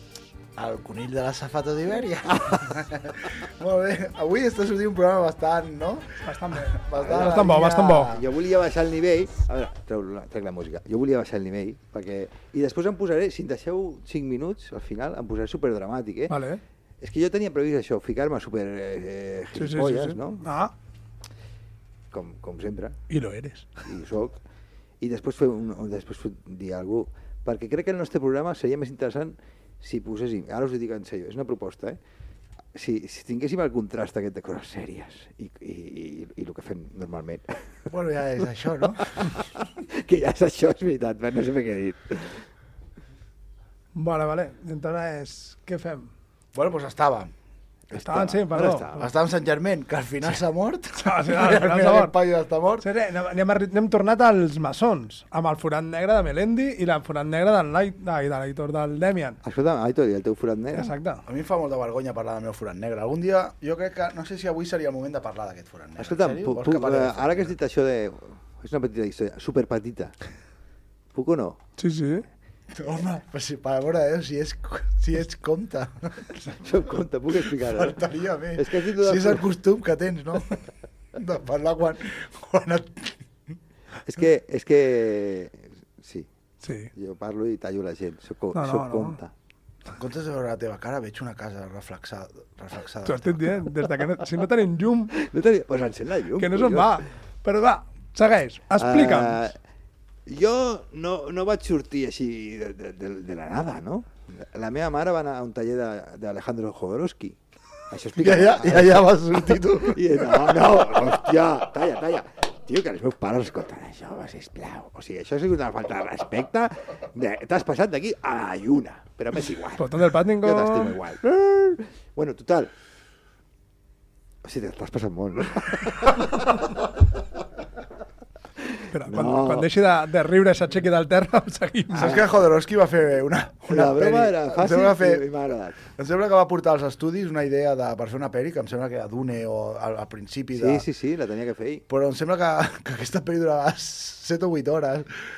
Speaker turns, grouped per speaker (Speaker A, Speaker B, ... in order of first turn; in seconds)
Speaker A: 0.6-6.1, 6.7-8.2, 37.9-39.1, 46.5-47.3, 48.9-52.8, 61.3-67.5, 72.7-76.5, 77.4-80.6, 81.1-83.2, 89.9-93.5, 108.2-110.8, 131.9-135.2, 135.9-140.8, 141.9-145.1
Speaker B: 6.2-8.1, 16.3-16.6, 19.6-20.7, 23.1-23.7, 44.0-46.1, 47.9-49.0, 51.0-52.1, 52.8-59.4, 60.7-61.2, 71.8-72.2, 86.6-86.9, 88.5-89.2, 93.0-95.2, 96.4-99.5, 119.8-121.0, 128.9-132.2
Speaker C: 7.0-7.5, 8.1-16.3, 17.0-20.5, 22.1-23.0, 23.9-24.4, 25.0-32.0, 32.7-37.6, 39.0-42.5, 47.9-49.1, 59.4-60.9, 66.0-70.1, 71.1-71.6, 76.5-78.0, 78.5-79.5, 84.0-86.3, 86.9-89.3, 95.1-97.0, 98.7-99.5, 100.2-107.4, 107.9-122.7, 124.4-126.9, 128.6-129.7, 131.9-132.4, 133.7-135.8, 140.5-141.8